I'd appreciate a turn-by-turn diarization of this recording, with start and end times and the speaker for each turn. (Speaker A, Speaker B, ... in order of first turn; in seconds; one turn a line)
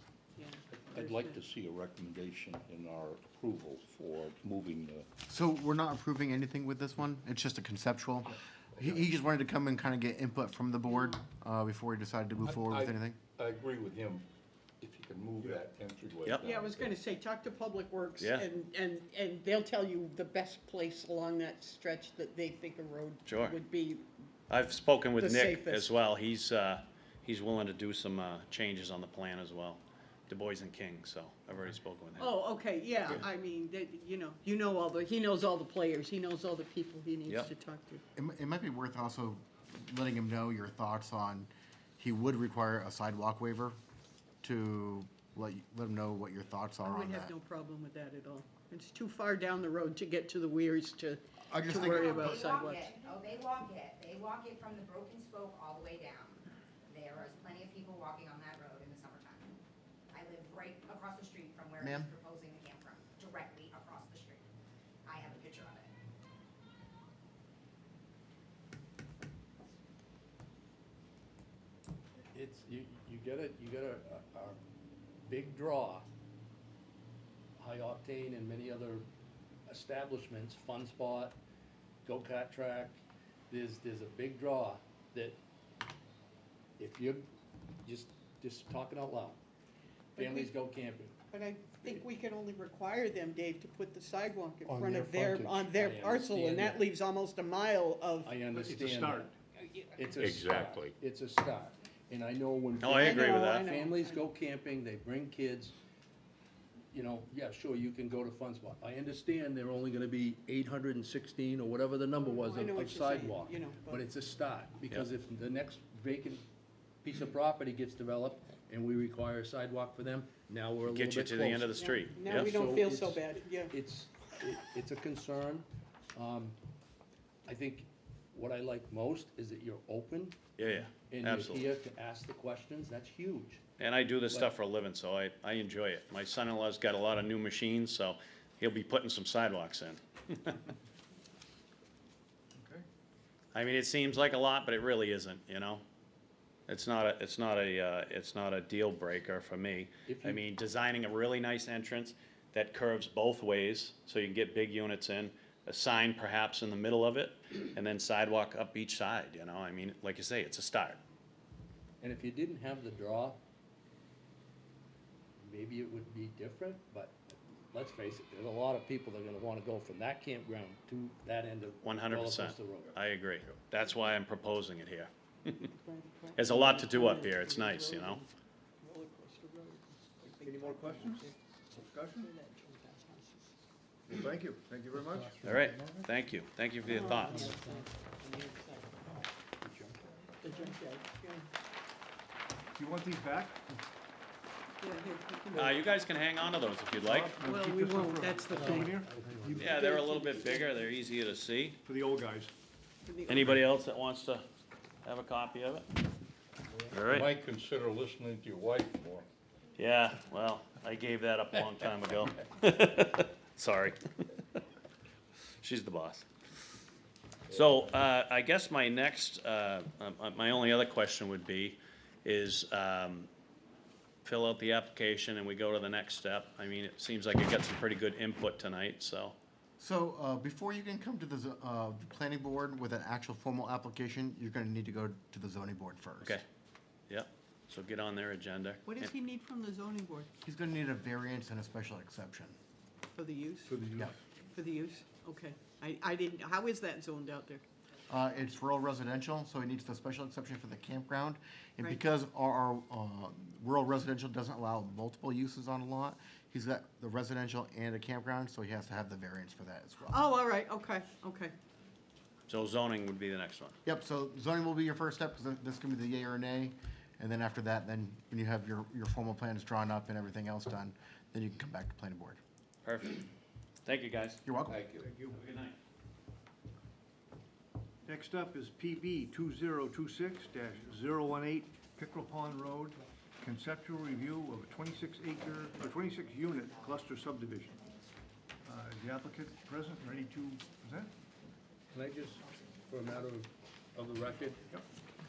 Speaker A: 0.3-1.4
Speaker B: 0.7-5.1
Speaker C: 5.3-13.2
Speaker B: 8.8-9.1
Speaker A: 10.9-11.2
Speaker B: 12.4-14.3
Speaker B: 14.8-17.0
Speaker D: 16.2-16.5
Speaker A: 16.4-24.1
Speaker D: 18.2-18.5
Speaker D: 23.2-23.6
Speaker D: 24.5-32.3
Speaker A: 25.2-25.9
Speaker A: 32.2-38.0
Speaker D: 37.2-37.5
Speaker C: 38.1-43.8
Speaker C: 44.4-47.3
Speaker A: 46.8-51.2
Speaker C: 51.5-52.4
Speaker A: 51.7-53.0
Speaker E: 51.7-59.6
Speaker E: 60.1-64.5
Speaker C: 61.8-62.1
Speaker E: 65.0-65.9
Speaker F: 72.3-74.6
Speaker F: 75.2-76.1
Speaker F: 77.6-79.0
Speaker F: 79.7-81.4
Speaker F: 82.0-85.4
Speaker F: 86.8-87.3
Speaker F: 87.8-89.4
Speaker A: 90.2-90.5
Speaker F: 90.2-91.1
Speaker A: 91.3-98.4
Speaker G: 95.0-95.3
Speaker F: 95.7-96.9
Speaker F: 98.2-99.3
Speaker G: 98.5-99.3
Speaker F: 99.9-105.7
Speaker B: 100.1-100.9
Speaker D: 102.8-103.6
Speaker A: 102.9-104.2
Speaker F: 106.9-116.5
Speaker A: 112.2-114.0
Speaker F: 117.0-126.5
Speaker D: 120.9-122.5
Speaker A: 121.8-123.7
Speaker F: 127.4-130.4
Speaker D: 130.6-131.7
Speaker F: 131.1-133.6
Speaker D: 133.8-140.6
Speaker F: 134.3-134.5
Speaker G: 142.6-142.8
Speaker D: 143.5-145.8
Speaker D: 146.7-161.0
Speaker F: 150.1-150.4
Speaker F: 162.0-163.4
Speaker F: 165.4-173.0
Speaker D: 171.8-175.7
Speaker A: 175.6-178.3
Speaker D: 176.3-178.2
Speaker A: 178.8-181.3
Speaker G: 180.4-181.2
Speaker G: 181.8-182.3
Speaker A: 182.1-183.5
Speaker G: 184.1-185.9
Speaker F: 185.2-185.6
Speaker D: 185.4-187.5
Speaker A: 186.8-188.9
Speaker F: 187.0-187.7
Speaker A: 190.4-191.4
Speaker G: 192.8-193.6
Speaker A: 194.8-195.8
Speaker D: 195.5-197.5
Speaker G: 197.0-199.8
Speaker A: 197.4-198.9
Speaker F: 198.5-199.8
Speaker D: 199.6-201.8
Speaker A: 199.8-200.8
Speaker G: 201.8-202.5
Speaker A: 203.1-203.5
Speaker D: 203.3-204.4
Speaker D: 205.0-205.9
Speaker D: 206.9-207.3
Speaker B: 207.0-209.3
Speaker D: 209.8-214.0
Speaker D: 215.6-216.2
Speaker D: 217.5-223.3
Speaker B: 217.5-217.8
Speaker D: 224.2-229.3
Speaker C: 229.8-236.4
Speaker D: 237.1-239.1
Speaker A: 238.8-240.3
Speaker C: 240.4-242.6
Speaker A: 243.1-243.7
Speaker G: 243.7-244.1
Speaker A: 244.5-247.6
Speaker C: 248.1-260.2
Speaker A: 260.1-261.5
Speaker D: 262.5-263.8
Speaker C: 263.8-272.4
Speaker D: 272.8-273.3
Speaker D: 273.8-274.4
Speaker C: 274.4-274.8
Speaker B: 274.7-275.1
Speaker G: 275.0-275.3
Speaker D: 275.2-275.8
Speaker G: 278.1-287.8
Speaker G: 288.6-291.1
Speaker F: 291.9-294.6